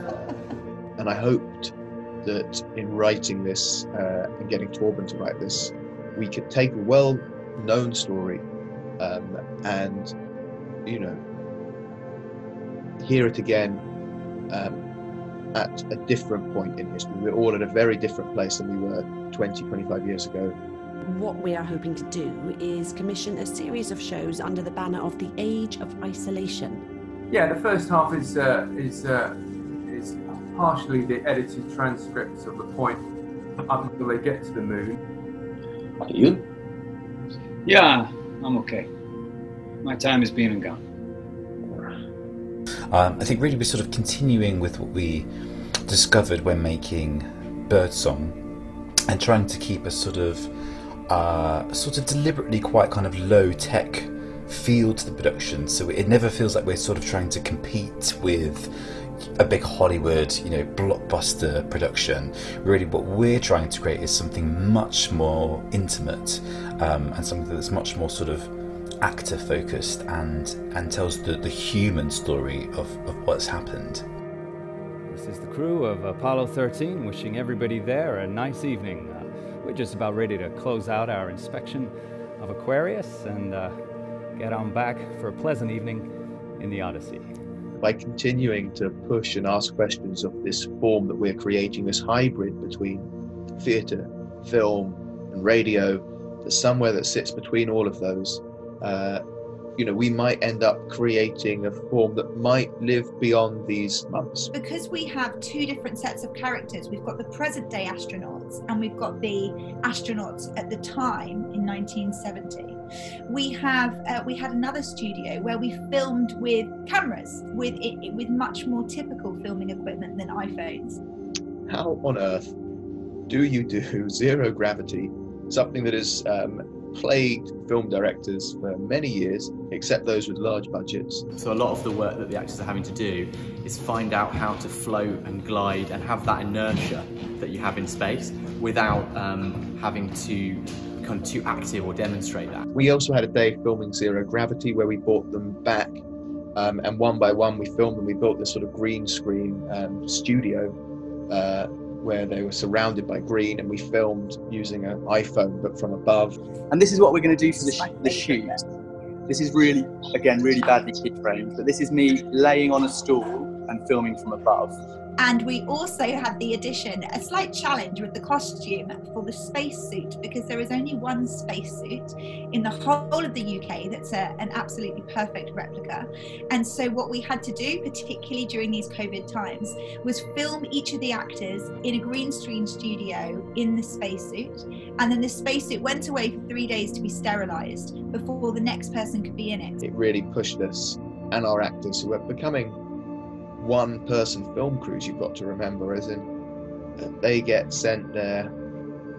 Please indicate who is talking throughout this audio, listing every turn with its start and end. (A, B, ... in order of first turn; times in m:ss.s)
0:01.0-0:01.7 A
0:02.2-0:08.4 A
0:09.0-0:10.1 A
0:10.8-0:11.2 A
0:13.0-0:13.8 A
0:14.5-0:14.8 A
0:15.5-0:20.5 A
0:21.0-0:26.8 B
0:27.3-0:33.0 C
0:33.6-0:35.0 C
0:37.6-0:38.9 D
0:39.8-0:40.8 D
0:42.9-0:45.3 E
0:45.8-0:48.4 E
0:49.1-0:50.5 E
0:51.1-0:58.7 E
0:59.4-1:08.5 E
1:09.0-1:14.0 E
1:15.1-1:23.7 F
1:24.3-1:27.3 F
1:27.8-1:33.1 A
1:33.6-1:39.2 A
1:39.8-1:44.5 A
1:44.5-2:01.0 G
2:01.7-2:02.5 A
2:03.3-2:11.2 A
2:11.4-2:22.6 H
2:22.7-2:26.0 A
2:26.6-2:30.7 A
2:31.3-2:36.4 A
2:36.7-2:38.6 I
2:39.3-2:44.8 I
2:45.2-3:09.8 G
3:09.8-3:12.8 A
3:13.6-3:16.3 A
3:17.0-3:18.5 A